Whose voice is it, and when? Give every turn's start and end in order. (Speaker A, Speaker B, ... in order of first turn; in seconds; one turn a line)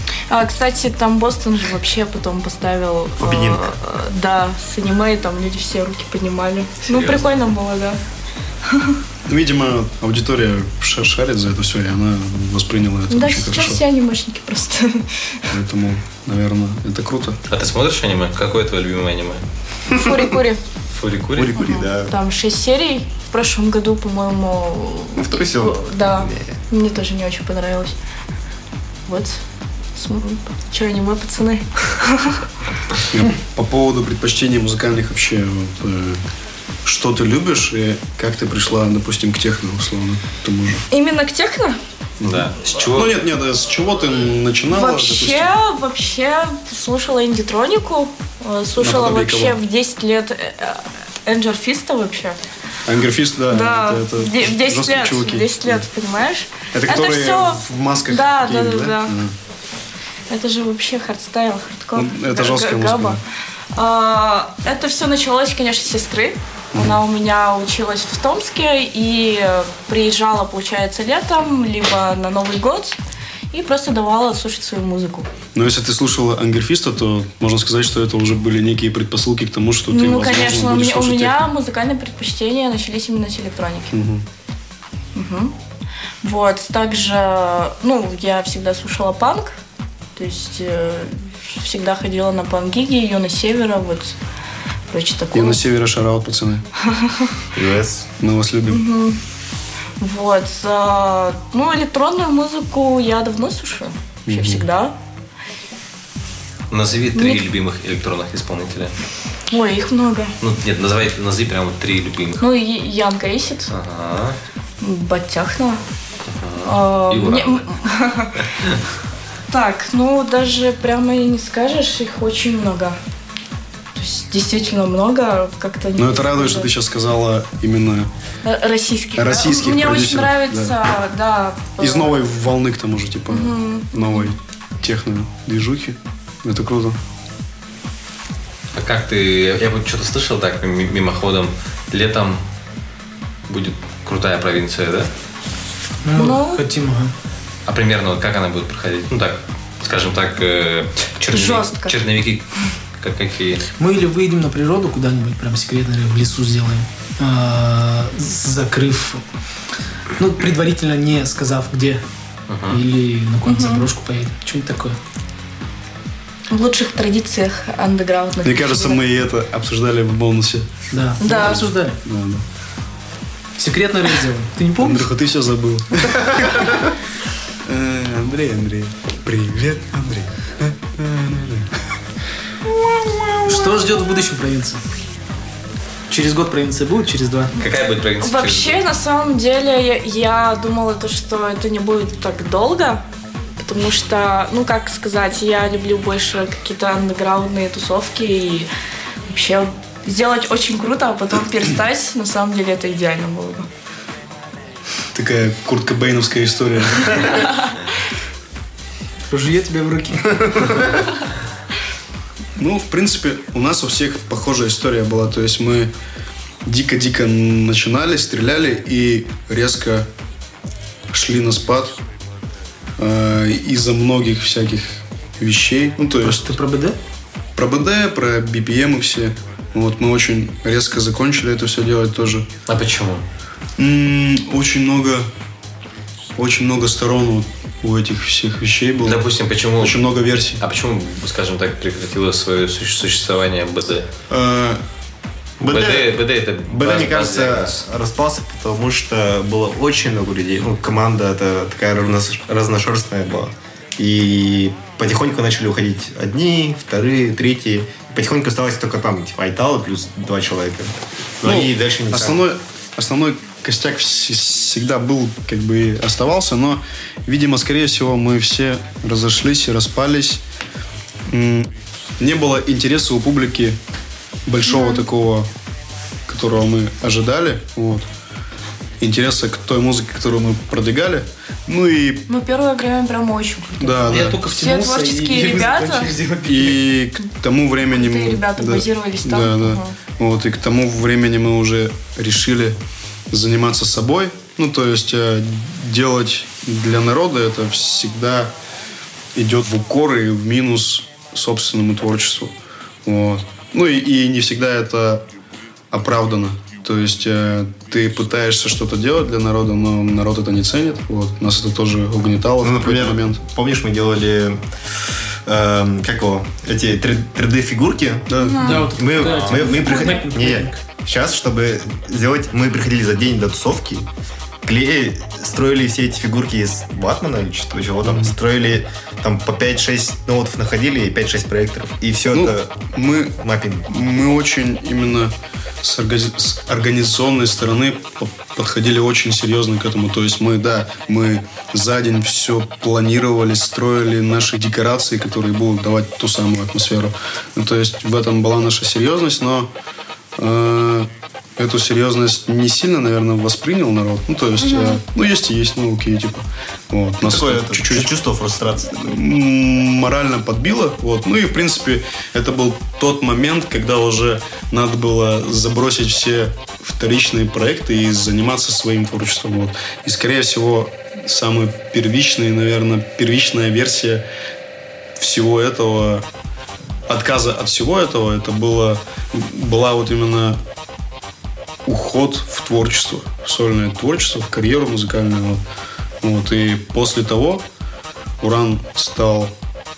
Speaker A: 0.3-8.0
Speaker B: 3.2-3.7
Speaker C: 6.9-7.3
Speaker A: 8.7-9.0
Speaker D: 9.3-13.8
Speaker A: 13.1-15.1
Speaker D: 15.5-17.4
Speaker C: 17.5-19.4
Speaker A: 19.9-20.6
Speaker B: 19.9-20.2
Speaker C: 20.9-21.6
Speaker B: 21.3-22.1
Speaker A: 21.5-27.9
Speaker B: 25.1-26.6
Speaker A: 29.1-29.4
Speaker A: 29.9-32.4
Speaker D: 33.1-36.2
Speaker D: 36.8-40.9
Speaker A: 40.9-41.8
Speaker D: 42.2-45.5
Speaker C: 42.2-43.2
Speaker A: 44.7-52.4
Speaker D: 48.8-49.6
Speaker D: 52.9-55.9
Speaker A: 53.5-59.1
Speaker D: 56.7-59.4
Speaker A: 60.3-63.2
Speaker D: 61.9-63.2
Speaker A: 63.7-73.0
Speaker D: 66.7-67.0
Speaker A: 73.5-75.3
Speaker D: 75.5-81.5
Speaker A: 79.9-83.9
Speaker D: 83.9-84.2
Speaker A: 85.1-85.5
Speaker A: 86.2-89.6
Speaker A: 90.2-94.2
Speaker A: 94.9-95.6
Speaker D: 95.3-96.6
Speaker A: 96.9-97.4
Speaker B: 97.5-98.1
Speaker D: 98.2-98.8
Speaker A: 98.7-99.2
Speaker A: 100.0-104.9
Speaker D: 104.3-104.7
Speaker C: 106.7-108.9
Speaker A: 107.1-107.4
Speaker A: 109.5-110.3
Speaker C: 110.4-112.4
Speaker A: 112.4-113.7
Speaker C: 113.7-114.4
Speaker A: 114.8-115.8
Speaker C: 116.3-117.7
Speaker A: 116.6-118.4
Speaker A: 119.5-123.0
Speaker A: 123.9-126.7
Speaker D: 126.0-128.1
Speaker A: 128.4-132.2
Speaker D: 129.2-130.8
Speaker D: 131.8-137.0
Speaker A: 133.3-134.3
Speaker C: 138.7-142.4
Speaker C: 143.5-145.1
Speaker E: 146.0-147.1
Speaker A: 146.1-146.6
Speaker C: 147.7-153.6
Speaker A: 151.3-151.9
Speaker E: 153.8-159.2
Speaker E: 160.2-162.0
Speaker C: 162.5-162.8
Speaker E: 162.7-165.0
Speaker A: 163.4-163.9
Speaker A: 166.5-169.0
Speaker D: 168.4-172.4
Speaker E: 170.9-172.0
Speaker A: 171.2-171.7
Speaker E: 173.6-175.1
Speaker D: 174.8-176.9
Speaker D: 177.7-181.7
Speaker D: 183.0-183.3
Speaker E: 183.4-184.8
Speaker E: 186.1-187.5
Speaker C: 187.6-188.9
Speaker A: 188.2-193.0
Speaker A: 193.6-198.7
Speaker A: 199.3-203.7
Speaker D: 205.1-207.5
Speaker E: 209.3-210.8
Speaker D: 212.6-215.9
Speaker D: 216.6-220.1
Speaker D: 221.1-222.0
Speaker D: 223.0-226.5
Speaker E: 226.2-227.0
Speaker D: 227.6-232.5
Speaker C: 232.7-233.2
Speaker D: 233.8-235.3
Speaker D: 236.4-239.3
Speaker C: 239.0-240.1
Speaker D: 239.8-240.6
Speaker C: 240.6-244.1
Speaker D: 244.3-244.8
Speaker B: 245.6-262.4
Speaker C: 245.7-247.8
Speaker D: 261.4-270.4
Speaker D: 271.3-273.8
Speaker D: 274.4-275.5
Speaker A: 274.6-275.0
Speaker D: 276.3-278.1
Speaker D: 279.0-282.3
Speaker A: 282.3-286.1
Speaker D: 283.8-284.4
Speaker E: 284.1-286.9
Speaker D: 286.4-292.8
Speaker A: 287.9-289.9
Speaker D: 293.3-298.5
Speaker D: 299.4-305.2
Speaker D: 305.9-313.4
Speaker B: 312.6-314.6
Speaker B: 315.4-318.3
Speaker D: 318.3-318.9
Speaker A: 318.4-318.9
Speaker E: 318.6-320.8
Speaker B: 318.9-324.1
Speaker C: 319.2-319.8
Speaker B: 324.6-332.7
Speaker D: 328.0-328.3
Speaker D: 332.3-349.7
Speaker B: 333.4-333.9
Speaker D: 350.4-358.1
Speaker A: 354.6-355.0
Speaker B: 357.2-359.0
Speaker D: 358.9-374.2
Speaker D: 375.2-376.2
Speaker D: 377.1-380.6
Speaker D: 381.9-385.6
Speaker D: 386.2-387.6
Speaker D: 388.4-389.5